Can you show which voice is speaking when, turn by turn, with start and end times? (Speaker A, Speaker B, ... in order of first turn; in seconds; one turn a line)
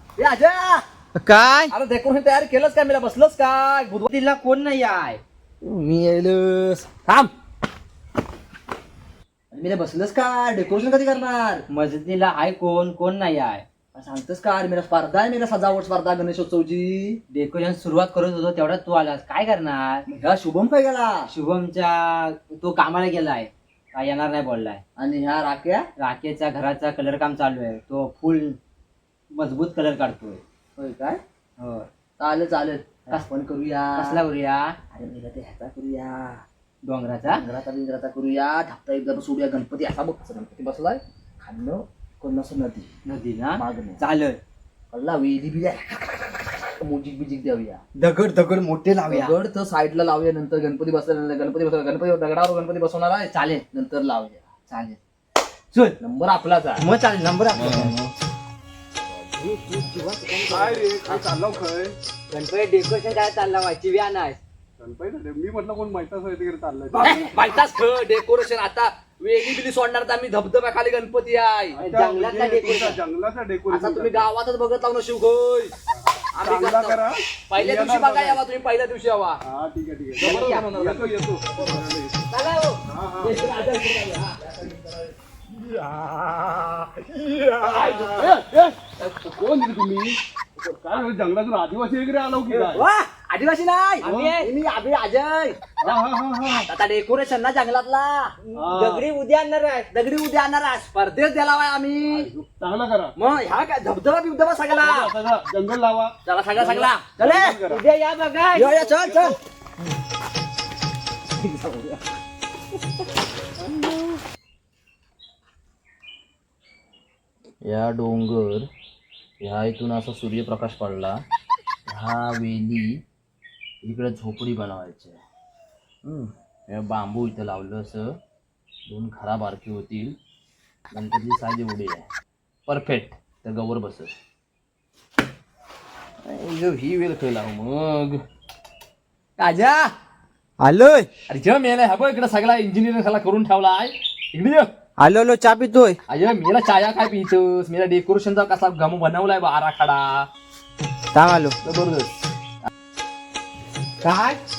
Speaker A: 0.2-0.8
Speaker B: 1.2-1.7
Speaker A: 1.7-4.1
Speaker B: 4.0-5.2
Speaker A: 5.6-7.3
Speaker A: 9.5-11.6
Speaker B: 11.7-13.6
Speaker A: 13.9-17.2
Speaker B: 17.3-20.0
Speaker A: 20.1-21.3
Speaker B: 21.3-24.8
Speaker A: 25.0-25.9
Speaker B: 26.0-28.6
Speaker B: 29.3-31.9
Speaker A: 32.2-34.2
Speaker B: 34.0-34.8
Speaker A: 34.9-36.4
Speaker B: 36.9-37.4
Speaker A: 37.3-42.9
Speaker B: 43.1-44.4
Speaker A: 43.6-44.0
Speaker A: 44.9-47.8
Speaker B: 48.0-49.4
Speaker A: 49.1-54.4
Speaker B: 53.3-53.6
Speaker B: 54.7-55.0
Speaker B: 55.7-56.0
Speaker A: 56.0-56.8
Speaker B: 56.8-57.9
Speaker A: 57.5-58.1
Speaker B: 59.4-60.9
Speaker C: 60.5-62.0
Speaker B: 62.3-64.4
Speaker C: 64.8-67.2
Speaker A: 66.9-71.8
Speaker C: 71.7-74.3
Speaker B: 71.8-73.0
Speaker A: 73.7-75.7
Speaker C: 75.9-78.4
Speaker A: 76.3-79.4
Speaker C: 79.5-82.3
Speaker A: 80.2-81.8
Speaker A: 82.3-88.5
Speaker C: 82.9-83.6
Speaker C: 87.7-92.8
Speaker A: 89.0-89.3
Speaker A: 92.5-95.6
Speaker B: 94.0-94.5
Speaker C: 94.0-94.4
Speaker C: 95.8-96.6
Speaker A: 96.6-98.4
Speaker C: 98.5-99.1
Speaker B: 98.5-99.9
Speaker A: 99.9-102.3
Speaker C: 102.1-103.1
Speaker A: 103.2-105.2
Speaker C: 104.8-107.8
Speaker A: 106.2-107.2
Speaker B: 107.2-108.9
Speaker A: 108.6-109.4
Speaker C: 109.0-109.3
Speaker A: 111.5-111.9
Speaker A: 117.6-118.7
Speaker A: 119.4-121.2
Speaker A: 121.9-123.0
Speaker A: 123.8-125.2
Speaker A: 126.0-128.1
Speaker A: 128.9-130.2
Speaker A: 130.9-132.1
Speaker A: 132.7-134.1
Speaker A: 136.2-138.2
Speaker A: 139.4-139.9
Speaker B: 140.6-141.1
Speaker A: 141.3-144.7
Speaker B: 145.0-146.0
Speaker A: 146.1-150.3
Speaker B: 151.1-151.6
Speaker A: 151.6-152.2
Speaker B: 154.0-154.4